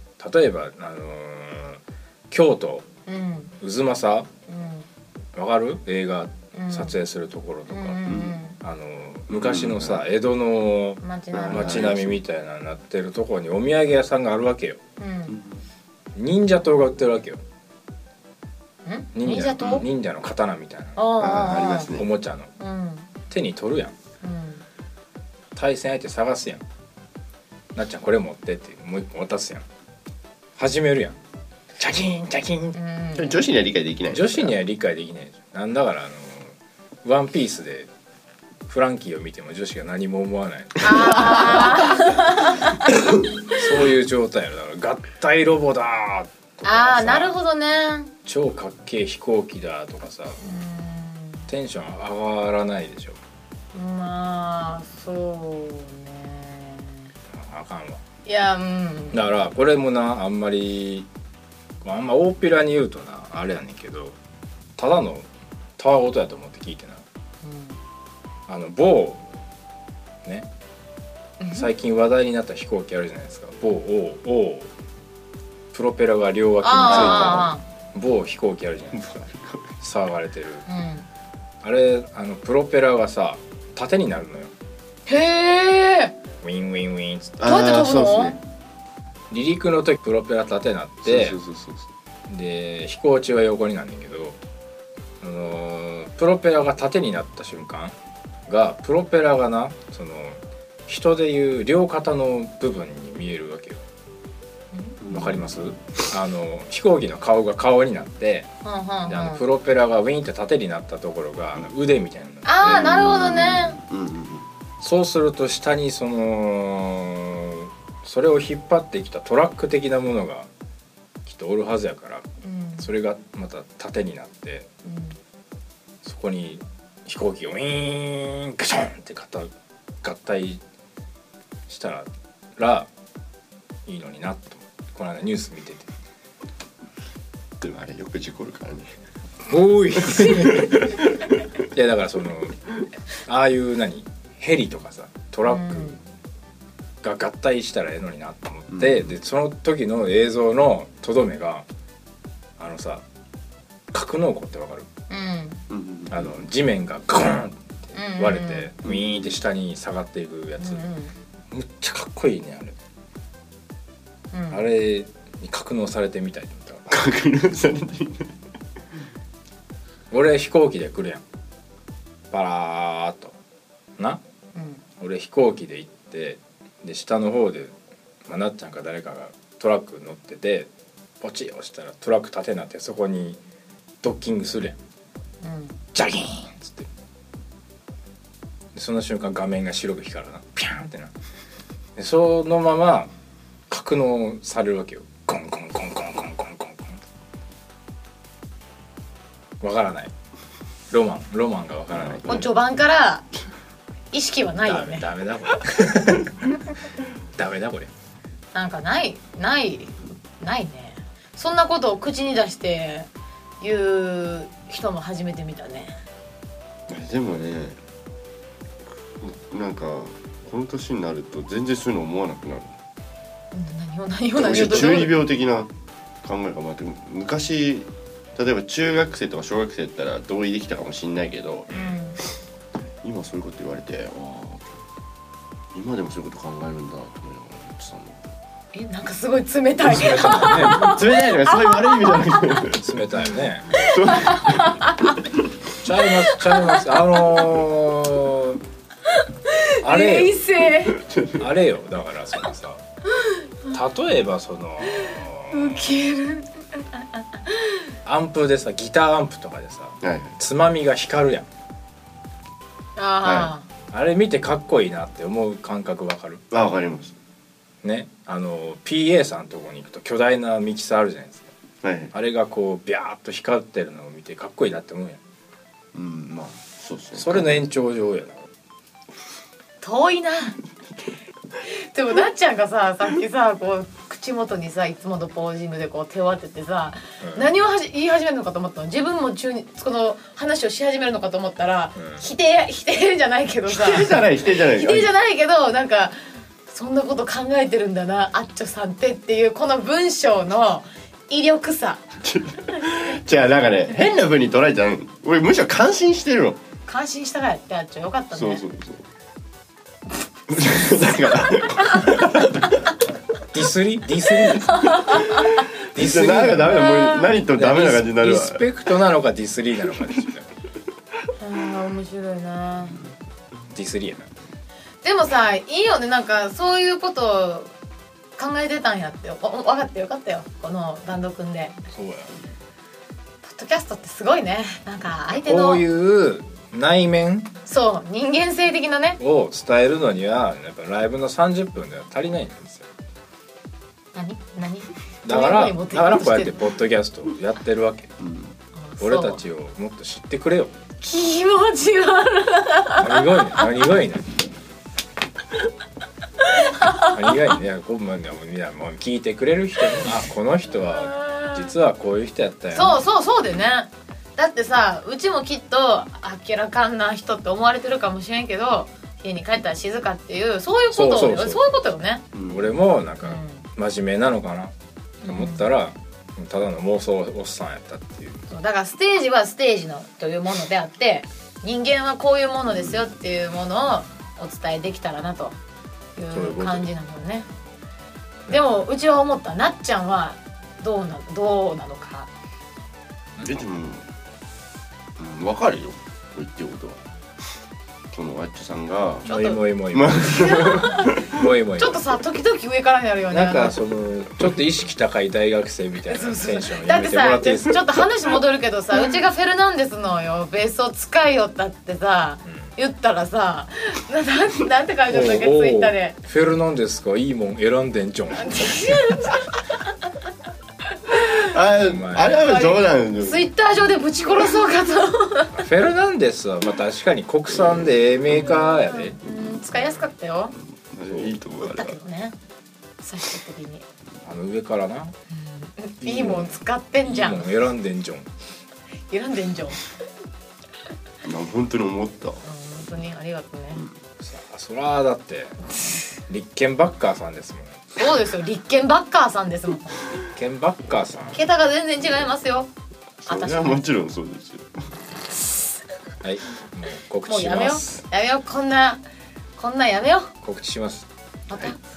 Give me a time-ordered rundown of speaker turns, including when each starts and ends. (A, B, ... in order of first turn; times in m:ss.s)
0:00.2-0:02.9 A
0:03.1-0:03.5 B
0:03.6-0:04.3 A
0:04.5-0:04.9 B
0:05.3-0:14.8 A
0:06.5-0:07.0 B
0:07.7-0:08.6 B
0:08.1-0:08.4 C
0:09.3-0:10.0 C
0:11.0-0:11.9 B
0:11.3-0:12.2 C
0:15.0-0:15.4 B
0:15.3-0:15.6 C
0:16.1-0:17.4 A
0:18.8-0:19.8 B
0:19.1-0:21.0 A
0:21.0-0:21.9 B
0:21.2-0:22.1 C
0:21.9-0:22.5 A
0:22.6-0:23.1 B
0:23.3-0:23.9 A
0:24.2-0:24.6 B
0:25.5-0:26.6 A
0:27.7-0:29.6 A
0:30.6-0:31.2 A
0:31.8-0:32.8 A
0:32.7-0:33.4 B
0:33.2-0:34.5 C
0:34.1-0:37.9 A
0:38.7-0:41.9 A
0:40.8-0:42.9 B
0:43.5-0:47.4 A
0:46.6-0:48.1 B
0:48.2-0:50.4 A
0:50.4-0:51.5 B
0:51.5-0:53.2 A
0:53.7-0:57.1 B
0:57.3-0:58.0 A
0:58.2-0:59.2 B
0:59.1-1:01.1 A
1:01.8-1:04.2 A
1:04.8-1:07.0 A
1:07.4-1:07.8 B
1:08.5-1:09.2 A
1:11.4-1:11.7 B
1:11.5-1:14.7 A
1:15.7-1:19.1 A
1:16.6-1:17.6 B
1:16.9-1:17.4 C
1:18.9-1:19.7 C
1:19.8-1:20.6 A
1:20.7-1:21.0 B
1:21.6-1:24.5 A
1:25.1-1:26.2 B
1:26.4-1:27.4 A
1:27.4-1:28.4 C
1:27.4-1:28.4 B
1:29.3-1:31.4 A
1:31.0-1:31.9 C
1:32.3-1:34.4 A
1:35.2-1:38.0 A
1:38.5-1:43.8 A
1:45.0-1:46.0 C
1:45.1-1:48.5 A
1:48.6-1:49.4 B
1:49.0-1:53.1 A
1:52.4-1:53.8 B
1:52.6-1:54.5 C
1:54.8-2:00.5 A
2:01.2-2:02.2 A
2:02.4-2:02.9 B
2:02.8-2:04.7 A
2:04.8-2:05.2 B
2:06.0-2:09.5 A
2:10.0-2:10.6 A
2:11.7-2:12.9 A
2:13.8-2:15.9 A
2:17.6-2:18.9 C
2:19.5-2:21.0 A
2:20.1-2:21.1 C
2:21.7-2:22.6 A
2:23.2-2:26.0 A
2:25.4-2:26.0 B
2:27.0-2:31.6 A
2:28.7-2:29.1 C
2:32.6-2:33.0 A
2:33.9-2:34.9 A
2:35.1-2:35.6 B
2:35.7-2:36.4 C
2:36.1-2:40.8 A
2:37.9-2:38.7 B
2:38.8-2:39.4 C
2:40.6-2:41.1 B
2:41.5-2:42.8 A
2:44.3-2:44.6 B
2:44.5-2:47.0 A
2:46.9-2:48.3 C
2:50.1-2:51.2 A
2:52.3-2:53.3 A
2:54.5-2:54.8 B
2:55.0-3:00.7 A
3:01.2-3:03.4 A
3:04.0-3:04.8 A
3:05.4-3:05.8 B
3:05.9-3:06.9 A
3:08.7-3:11.1 A
3:12.0-3:13.1 A
3:13.7-3:17.0 A
3:19.6-3:20.1 A
3:20.9-3:22.5 A
3:21.9-3:22.4 C
3:22.2-3:23.2 B
3:24.1-3:25.1 B
3:24.6-3:26.6 A
3:27.4-3:27.9 A
3:28.5-3:33.1 B
3:33.6-3:36.0 B
3:36.9-3:37.8 C
3:39.2-3:42.8 C
3:43.5-3:45.2 B
3:44.4-3:45.7 C
3:46.2-3:51.7 C
3:51.7-3:52.0 A
3:51.7-3:52.2 B
3:53.0-3:54.8 C
3:55.7-3:58.2 C
3:58.7-4:02.6 B
3:59.8-4:01.0 A
4:00.3-4:02.9 C
4:02.7-4:03.9 A
4:03.8-4:04.8 C
4:03.8-4:05.2 B
4:05.8-4:08.6 A
4:06.0-4:07.5 B
4:09.0-4:11.0 B
4:09.8-4:10.4 A
4:11.0-4:11.4 C
4:11.4-4:12.8 A
4:13.2-4:13.7 B
4:13.7-4:15.9 A
4:14.8-4:17.8 B
4:18.0-4:21.5 A
4:20.0-4:20.4 C
4:23.0-4:23.7 B
4:23.2-4:23.5 C
4:23.9-4:26.4 A
4:26.5-4:27.1 C
4:27.8-4:31.5 A
4:31.8-4:32.1 C
4:32.1-4:35.2 A
4:35.9-4:37.6 C
4:37.2-4:38.5 A
4:39.8-4:40.6 B
4:41.6-4:56.2 B
4:47.2-4:47.5 A
4:52.0-4:52.2 A
4:53.7-4:55.1 C
4:56.7-5:02.0 B
5:02.2-5:06.6 C
5:06.9-5:08.6 B
5:08.3-5:09.0 C
5:10.5-5:12.7 C
5:10.7-5:12.3 B
5:13.5-5:15.1 A
5:14.6-5:15.6 B
5:15.3-5:18.6 C
5:15.9-5:16.9 A
5:16.7-5:17.3 B
5:17.5-5:20.5 A
5:21.4-5:23.0 B
5:23.7-5:24.3 A
5:25.0-5:27.7 B
5:28.4-5:31.8 B
5:31.9-5:32.3 A
5:33.4-5:35.8 B
5:35.3-5:37.5 A
5:37.6-5:39.2 B
5:39.2-5:42.9 A
5:44.1-5:46.6 B
5:45.2-5:48.1 A
5:48.2-5:48.6 C
5:48.8-5:49.4 B
5:49.0-5:50.7 A
5:51.0-5:53.8 B
5:53.0-5:54.3 A
5:56.4-5:57.3 B
5:57.0-6:03.0 A
6:00.9-6:01.6 B
6:02.7-6:12.2 B
6:10.9-6:11.6 A
6:12.3-6:12.7 C
6:12.5-6:18.4 A
6:13.2-6:13.7 B
6:15.2-6:15.7 B
6:18.5-6:25.6 B
6:26.2-6:27.5 B
6:26.3-6:26.8 A
6:28.5-6:32.3 B
6:33.4-6:34.0 C
6:35.2-6:37.0 C
6:38.1-6:39.3 C
6:39.2-6:39.6 B
6:39.2-6:42.0 A
6:39.9-6:41.4 C
6:40.2-6:41.2 B
6:41.8-6:43.8 B
6:43.3-6:47.9 A
6:46.1-6:56.2 B
6:55.1-6:59.2 A
6:58.3-6:59.9 B
7:01.1-7:01.4 B
7:01.4-7:03.5 C
7:01.8-7:02.5 A
7:02.4-7:05.6 B
7:05.5-7:09.2 A
7:08.3-7:10.5 B
7:09.8-7:10.0 A
7:10.9-7:12.0 C
7:11.1-7:11.3 A
7:11.6-7:12.3 B
7:13.0-7:13.8 B
7:14.2-7:15.2 A
7:15.3-7:17.5 B
7:16.0-7:16.5 A
7:17.0-7:18.3 A
7:19.1-7:19.8 B
7:21.2-7:22.4 C
7:22.4-7:23.8 B
7:24.2-7:25.6 A
7:26.3-7:28.1 A
7:28.0-7:30.1 B
7:30.3-7:31.4 A
7:31.3-7:32.7 B
7:33.2-7:34.9 C
7:33.3-7:33.8 B
7:36.2-7:38.0 A
7:37.2-7:39.0 B
7:39.6-7:40.3 B
7:40.4-7:41.1 A
7:41.5-7:41.8 B